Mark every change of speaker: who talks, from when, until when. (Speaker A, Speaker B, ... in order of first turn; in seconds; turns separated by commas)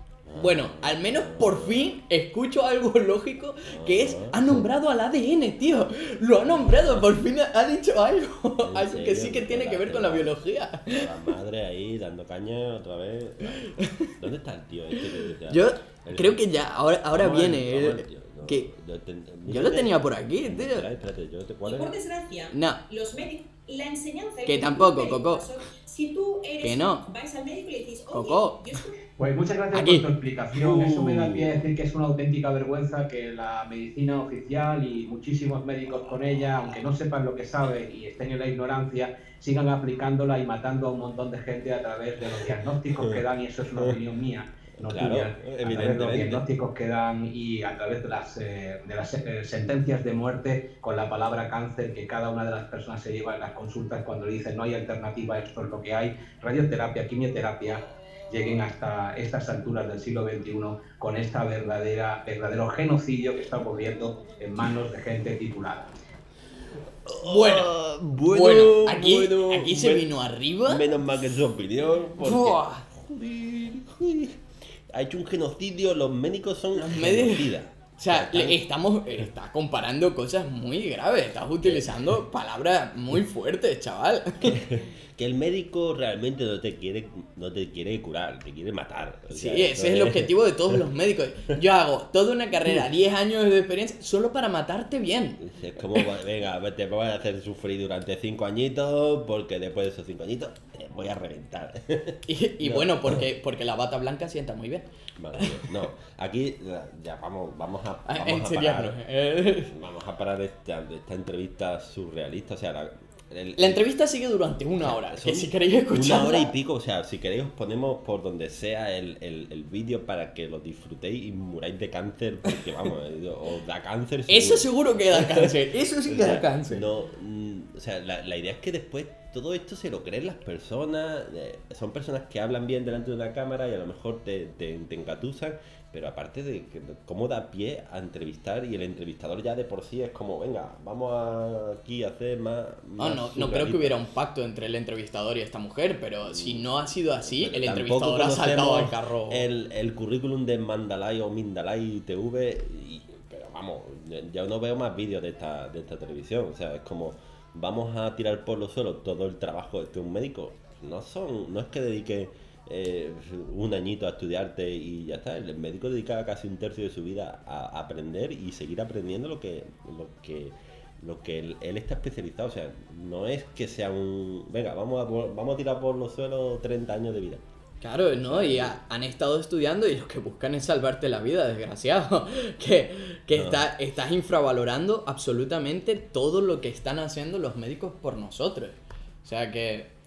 Speaker A: 0.2-1.8, Speaker B: 0.3-11.1, Speaker A: 3.7-4.6, Speaker A: 6.4-7.1, Speaker A: 8.6-22.0, Speaker B: 13.8-14.1, Speaker B: 15.5-18.7, Speaker B: 19.4-20.9, Speaker C: 21.6-29.0, Speaker B: 22.5-22.8, Speaker B: 24.5-25.4, Speaker B: 26.6-27.1, Speaker B: 28.1-28.6, Speaker D: 29.2-65.9, Speaker B: 29.7-30.1, Speaker A: 30.5-31.7, Speaker A: 35.9-36.8, Speaker A: 42.9-43.2, Speaker A: 44.8-46.4, Speaker A: 67.0-70.1, Speaker B: 67.2-67.7, Speaker B: 68.3-70.8, Speaker A: 70.6-78.6, Speaker B: 72.2-72.8, Speaker B: 76.7-84.6, Speaker A: 81.6-82.2, Speaker A: 84.4-90.8, Speaker B: 89.3-95.4, Speaker A: 95.4-103.2, Speaker B: 102.3-105.6, Speaker A: 105.2-109.0, Speaker B: 108.0-109.7, Speaker A: 109.7-113.8, Speaker B: 113.6-116.5, Speaker A: 114.8-144.0, Speaker B: 124.3-126.8, Speaker B: 143.0-149.4, Speaker A: 146.2-177.4, Speaker B: 177.8-189.9, Speaker A: 178.2-178.8, Speaker A: 183.3-183.7